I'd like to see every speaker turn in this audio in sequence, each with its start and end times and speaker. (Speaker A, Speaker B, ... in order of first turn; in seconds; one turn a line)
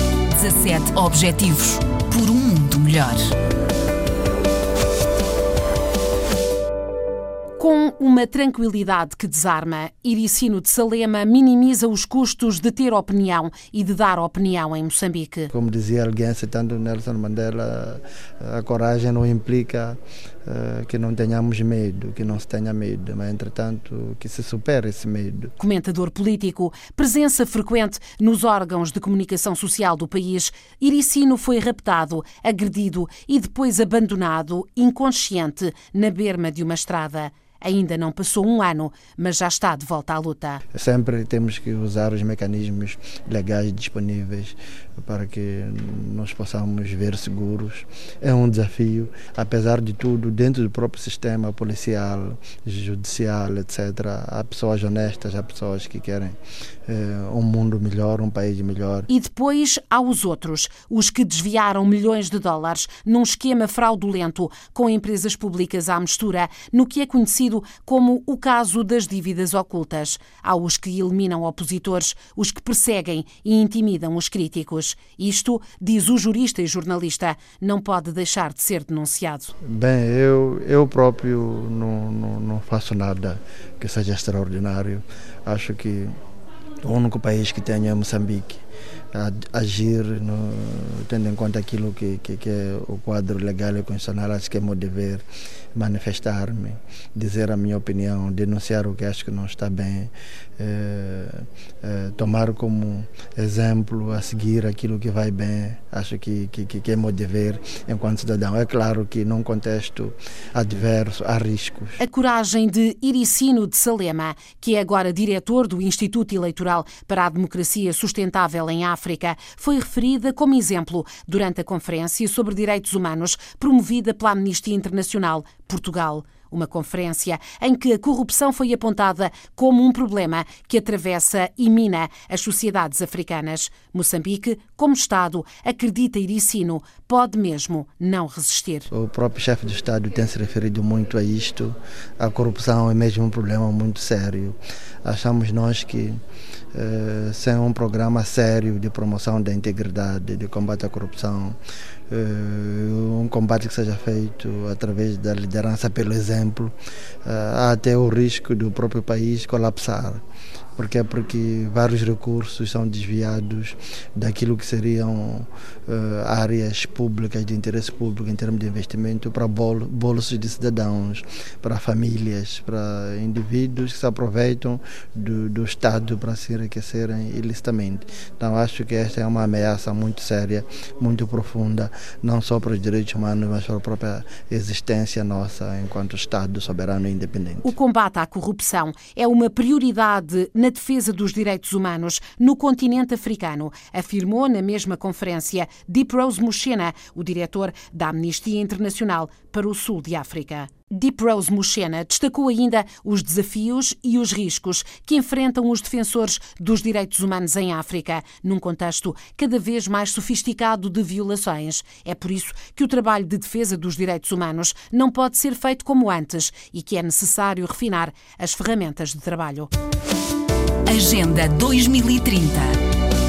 Speaker A: 0.4-1.5
Speaker B: 0.4-3.2
Speaker A: 2.1-3.0
Speaker A: 7.6-15.5
Speaker C: 15.5-25.5
Speaker A: 25.6-40.6
Speaker C: 40.7-59.1
Speaker A: 59.1-79.5
Speaker C: 79.6-86.2
Speaker C: 86.8-88.6
Speaker C: 89.1-95.2
Speaker C: 95.8-112.0
Speaker A: 112.0-138.9
Speaker C: 138.9-146.2
Speaker C: 146.7-151.6
Speaker C: 152.1-156.7
Speaker C: 157.2-160.2
Speaker C: 160.8-187.7
Speaker A: 187.6-219.7
Speaker A: 220.9-221.9
Speaker B: 221.0-222.7